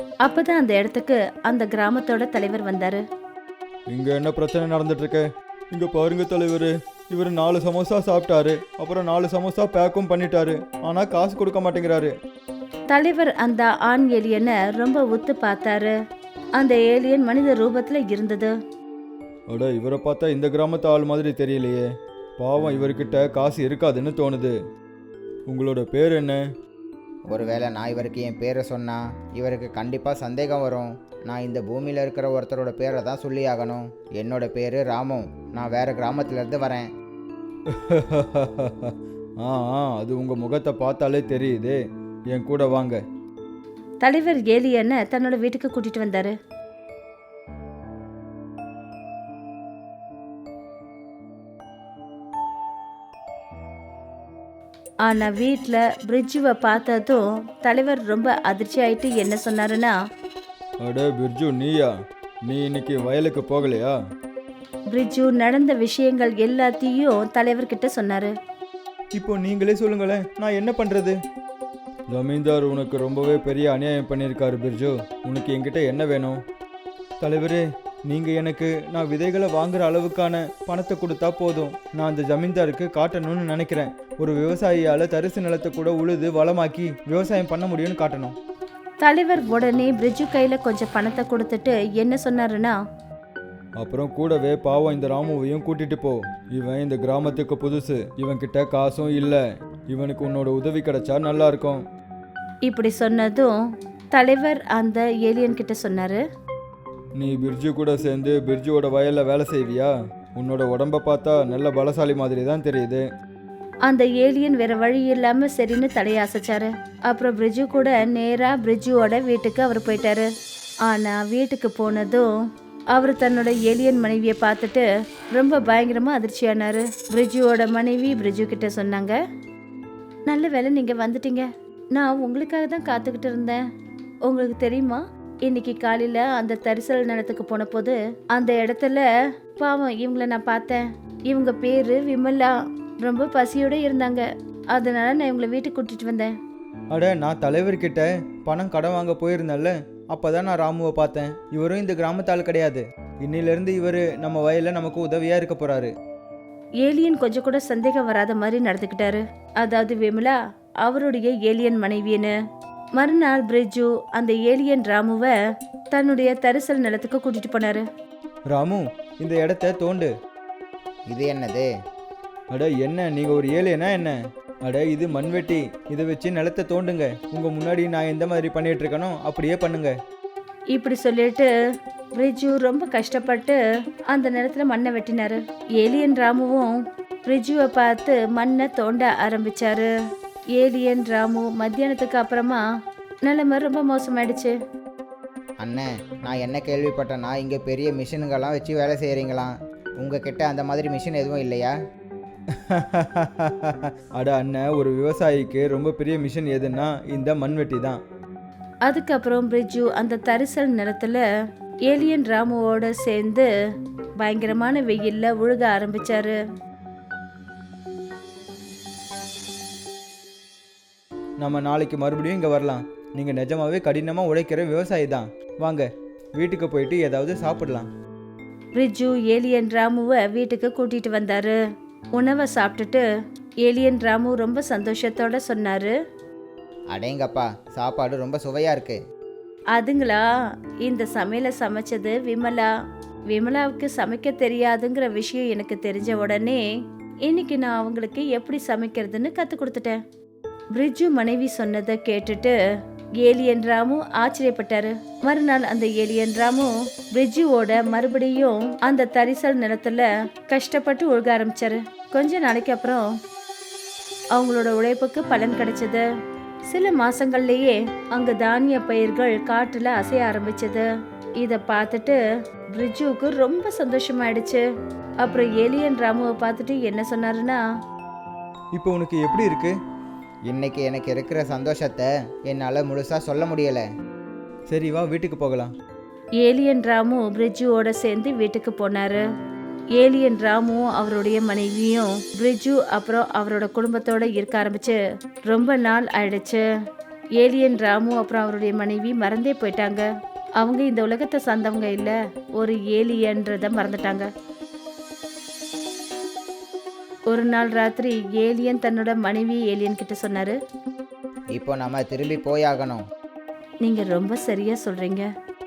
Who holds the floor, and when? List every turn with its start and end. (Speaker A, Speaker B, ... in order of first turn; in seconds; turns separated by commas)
Speaker A: 0.2-3.0, Speaker B: 3.9-12.1, Speaker A: 12.9-15.9, Speaker A: 16.6-18.5, Speaker B: 19.5-21.8, Speaker B: 22.4-24.6, Speaker B: 25.5-26.4, Speaker C: 27.3-36.9, Speaker B: 37.7-41.8, Speaker B: 42.3-43.0, Speaker A: 44.0-46.3, Speaker A: 55.0-59.9, Speaker B: 60.8-61.9, Speaker B: 62.5-63.9, Speaker A: 64.9-68.3, Speaker B: 69.1-71.2, Speaker B: 72.1-76.4, Speaker B: 77.2-88.3, Speaker A: 89.0-92.7, Speaker B: 93.8-101.8, Speaker A: 102.7-103.5, Speaker A: 104.1-106.2, Speaker B: 107.2-113.0, Speaker A: 113.8-120.3, Speaker A: 120.8-122.3, Speaker A: 122.9-129.2, Speaker A: 130.3-133.6, Speaker A: 134.2-139.1, Speaker A: 139.6-146.3, Speaker B: 146.9-155.9, Speaker A: 156.8-162.3, Speaker A: 163.0-165.3, Speaker A: 165.9-167.8, Speaker B: 168.5-170.1, Speaker C: 171.1-171.7, Speaker B: 172.5-179.9, Speaker A: 180.7-181.5, Speaker A: 182.2-183.6, Speaker A: 184.1-186.7, Speaker A: 187.2-189.9, Speaker A: 190.6-192.6, Speaker A: 193.2-194.5, Speaker C: 195.6-201.7, Speaker B: 202.5-208.0, Speaker A: 208.9-211.2, Speaker A: 211.9-213.5, Speaker A: 214.2-216.3, Speaker B: 221.4-227.9, Speaker A: 228.8-231.5, Speaker A: 232.2-233.0, Speaker A: 233.6-235.9, Speaker C: 236.9-239.0, Speaker A: 239.7-240.2, Speaker A: 240.8-242.7, Speaker A: 243.3-246.6, Speaker A: 247.2-250.0, Speaker A: 250.7-252.6, Speaker A: 253.2-263.1, Speaker A: 264.3-266.0, Speaker A: 266.7-270.8, Speaker A: 271.4-272.2, Speaker A: 272.7-274.6, Speaker A: 275.2-277.6, Speaker B: 278.7-279.7, Speaker C: 280.5-283.9, Speaker B: 284.7-285.7, Speaker A: 286.4-289.2, Speaker A: 290.0-295.0, Speaker A: 295.5-296.6, Speaker A: 297.4-300.1, Speaker A: 300.6-304.3, Speaker A: 307.3-310.6, Speaker C: 311.5-313.0, Speaker A: 313.8-315.3